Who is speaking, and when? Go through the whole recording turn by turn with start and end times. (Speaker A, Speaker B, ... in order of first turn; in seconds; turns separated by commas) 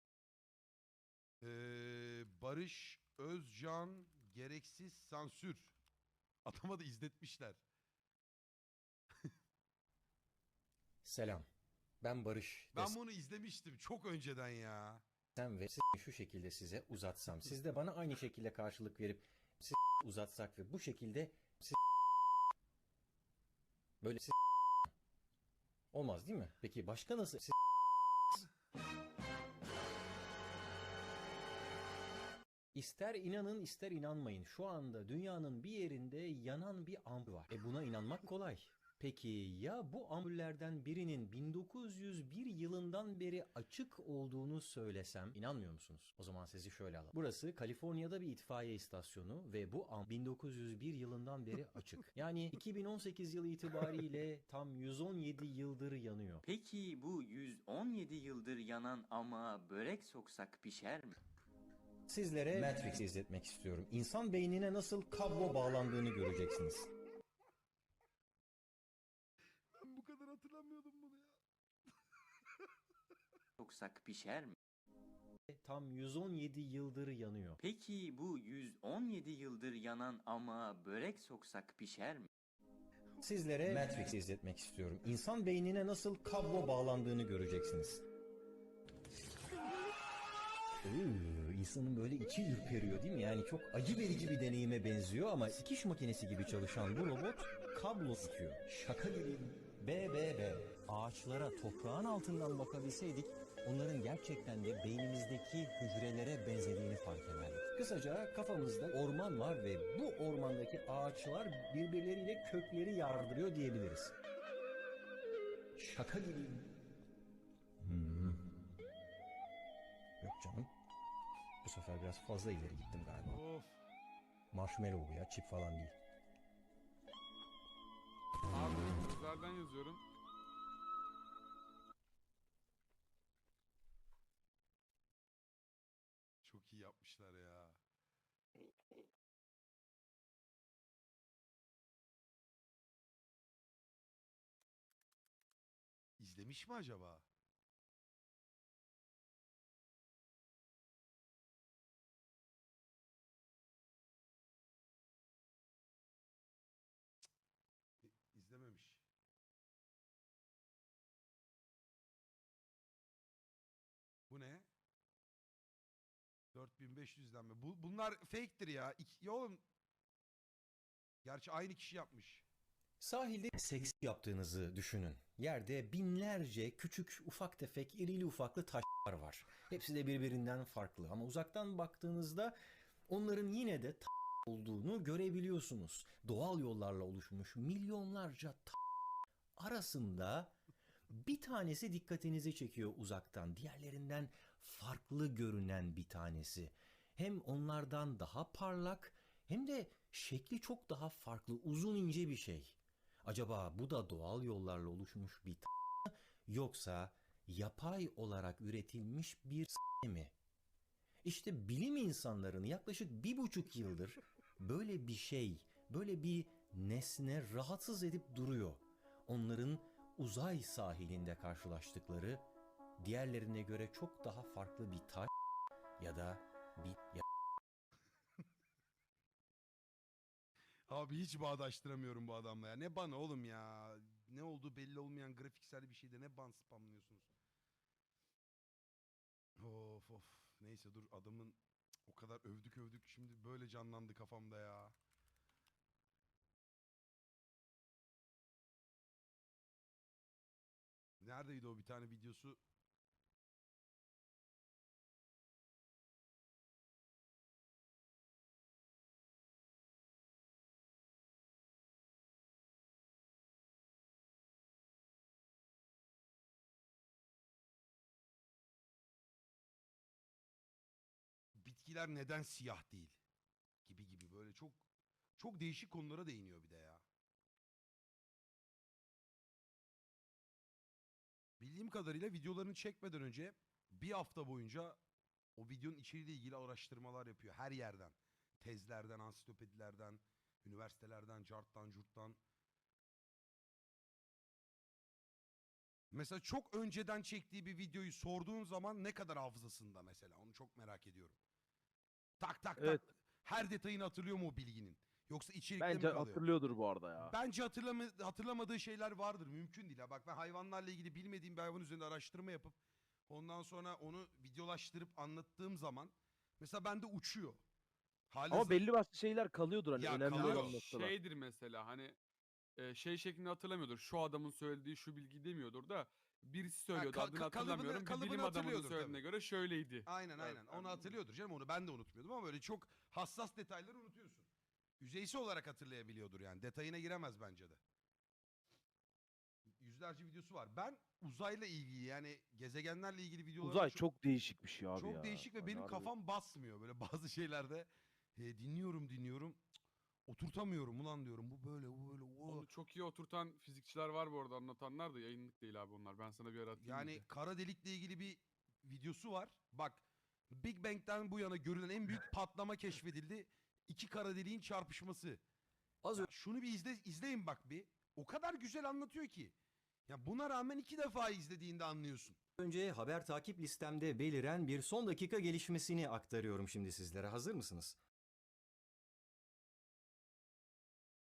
Speaker A: 1.4-5.7, Speaker A: 6.5-7.6, Speaker B: 11.0-11.5, Speaker B: 12.0-13.0, Speaker A: 12.7-15.0, Speaker B: 15.4-21.8, Speaker B: 24.0-24.9, Speaker B: 25.9-27.6, Speaker B: 32.7-56.5, Speaker C: 56.5-61.2, Speaker B: 62.1-66.9, Speaker A: 69.7-71.3, Speaker C: 73.6-74.6, Speaker B: 75.5-77.6, Speaker C: 77.6-82.3, Speaker B: 83.2-88.0, Speaker B: 90.8-114.2, Speaker B: 115.8-116.7, Speaker B: 117.8-118.4, Speaker B: 120.2-120.7, Speaker B: 121.6-123.4, Speaker A: 123.3-123.8, Speaker B: 124.5-126.0, Speaker D: 128.5-130.0, Speaker A: 136.4-137.8, Speaker A: 146.2-147.2, Speaker A: 158.0-159.0, Speaker A: 164.3-164.7, Speaker A: 166.5-169.6, Speaker A: 171.2-172.4, Speaker B: 173.0-182.6, Speaker B: 183.1-188.8, Speaker B: 189.6-190.5, Speaker B: 191.1-210.3, Speaker B: 211.2-222.5, Speaker B: 223.0-225.3, Speaker B: 226.0-227.2, Speaker A: 230.9-237.3, Speaker A: 239.6-244.9, Speaker A: 251.2-252.6, Speaker A: 271.6-273.2, Speaker A: 273.9-274.8, Speaker A: 275.4-277.0, Speaker A: 281.6-285.0, Speaker A: 285.6-292.4, Speaker A: 296.1-301.4, Speaker A: 302.4-306.4, Speaker E: 302.8-303.1, Speaker E: 305.8-307.4, Speaker A: 307.3-312.8, Speaker A: 313.3-317.6, Speaker A: 318.3-318.9, Speaker E: 318.5-321.1, Speaker A: 320.0-320.8, Speaker D: 320.3-322.2, Speaker D: 322.8-331.2, Speaker A: 326.9-329.2, Speaker A: 330.1-334.5, Speaker A: 335.0-337.8, Speaker A: 339.8-344.0, Speaker E: 343.6-346.1, Speaker A: 345.0-349.6, Speaker A: 350.3-352.7, Speaker D: 352.5-357.2, Speaker A: 356.8-365.4, Speaker B: 366.0-366.3, Speaker A: 366.2-369.5, Speaker A: 370.1-372.4, Speaker B: 372.6-378.0